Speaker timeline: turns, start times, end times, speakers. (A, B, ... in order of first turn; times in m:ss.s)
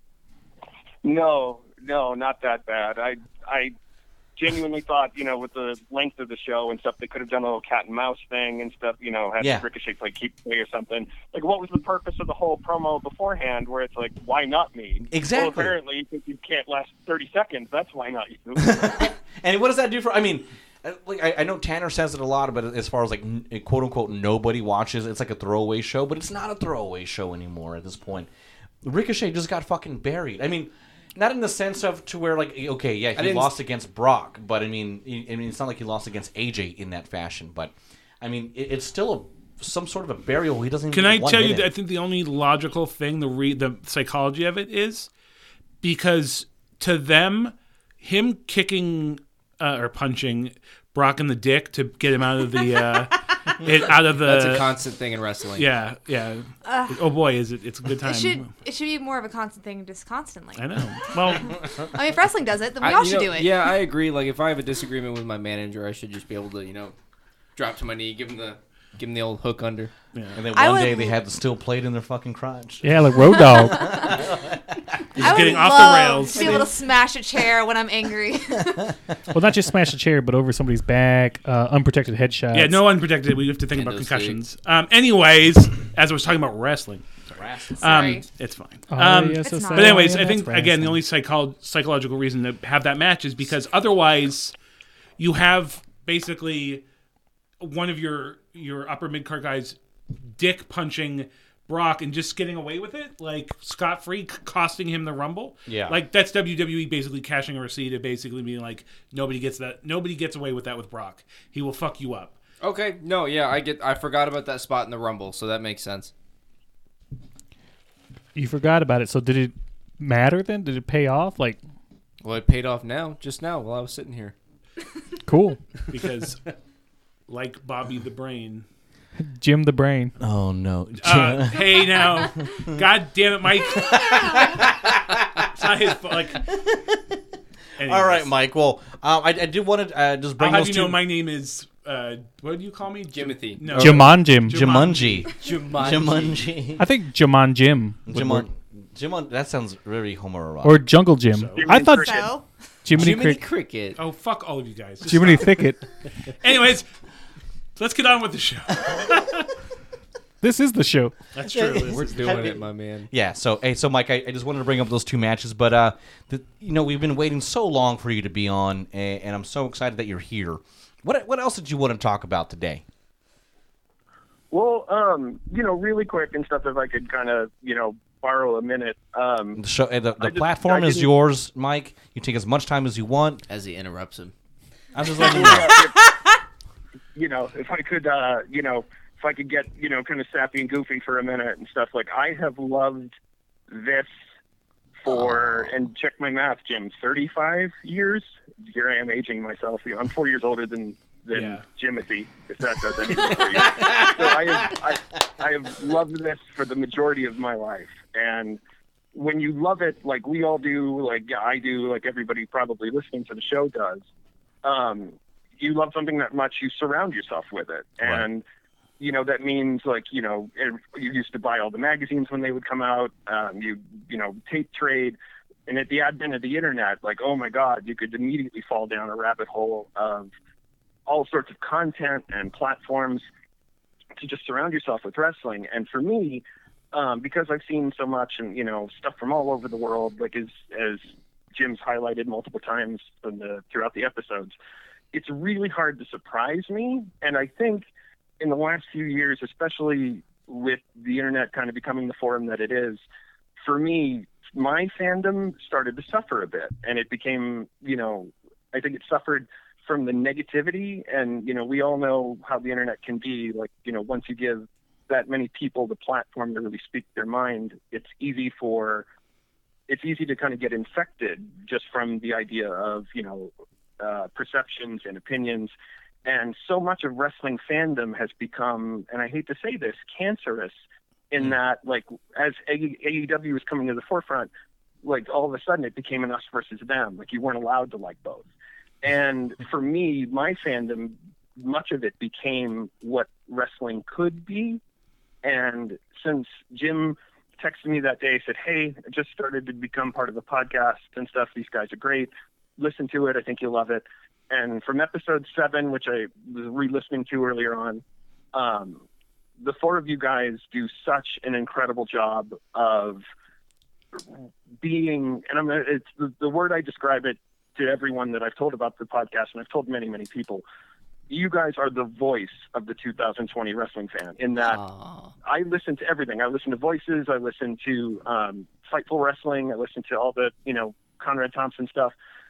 0:01.0-0:03.7 A
0:04.4-0:19.0 A
0:15.0-0:15.8 B
0:18.6-0:28.3 B
0:28.8-0:41.7 B
0:33.2-0:33.5 C
0:40.9-0:45.1 D
0:45.8-0:54.7 D
0:54.2-0:55.7 C
0:55.6-0:58.5 D
0:56.6-0:57.0 E
0:58.0-1:00.7 E
1:00.6-1:01.6 D
1:01.3-1:03.7 E
1:02.8-1:06.9 C
1:07.5-1:09.9 C
1:10.3-1:13.0 B
1:10.5-1:11.2 E
1:12.8-1:14.0 F
1:13.7-1:16.6 B
1:13.7-1:14.2 E
1:15.2-1:16.7 D
1:15.2-1:18.9 E
1:19.3-1:22.8 F
1:22.5-1:27.0 D
1:23.7-1:24.4 C
1:27.3-1:27.9 B
1:27.8-1:28.2 E
1:27.8-1:34.5 D
1:28.9-1:31.0 F
1:29.4-1:30.2 E
1:35.2-1:36.8 D
1:37.6-1:39.8 D
1:40.4-1:52.4 D
1:45.7-1:46.0 B
1:52.6-1:56.1 C
1:58.3-2:01.6 F
2:02.2-2:04.3 C
2:05.3-2:05.6 F
2:05.9-2:06.4 D
2:07.3-2:08.6 D
2:09.2-2:10.1 F
2:10.2-2:12.8 B
2:11.0-2:14.3 D
2:13.6-2:15.6 B
2:15.4-2:16.5 D
2:16.5-2:17.1 B
2:17.8-2:18.3 D
2:17.8-2:21.0 B
2:20.4-2:25.3 D
2:23.1-2:24.1 C
2:23.7-2:24.6 F
2:24.5-2:26.8 B
2:25.3-2:26.5 C
2:26.8-2:28.4 F
2:28.1-2:30.8 B
2:30.6-2:32.3 F
2:31.3-2:31.6 D
2:31.6-2:32.2 A
2:31.9-2:32.4 E
2:32.8-2:33.4 F
2:32.9-2:34.0 C
2:34.0-2:35.6 D
2:35.0-2:35.8 F
2:36.4-2:36.9 D
2:37.8-2:39.5 D
2:40.4-2:41.2 F
2:41.3-2:42.4 D
2:41.5-2:52.8 B
2:41.8-2:43.1 C
2:54.5-2:59.6 A
2:59.6-3:03.4 B
3:00.2-3:01.1 A
3:03.5-3:04.3 C
3:04.9-3:05.7 B
3:05.2-3:06.0 A
3:07.1-3:13.1 A
3:13.7-3:14.1 A
3:15.0-3:28.6 A
3:21.3-3:21.6 D
3:29.1-3:34.0 A
3:34.6-3:38.4 A
3:39.0-3:50.3 A
3:51.1-3:53.2 A
3:54.2-4:04.5 A
4:05.1-4:07.9 A
4:08.4-4:13.0 A
4:13.6-4:29.0 A
4:29.9-4:35.7 A
4:36.2-4:40.8 A
4:41.3-4:44.5 A
4:45.0-4:48.5 A
4:49.0-4:54.8 A
4:55.4-5:08.0 A
5:08.5-5:09.0 A
5:09.6-5:13.2 A
5:14.8-5:20.6 A
5:21.3-5:24.8 A
5:24.6-5:25.3 C
5:25.4-5:32.1 A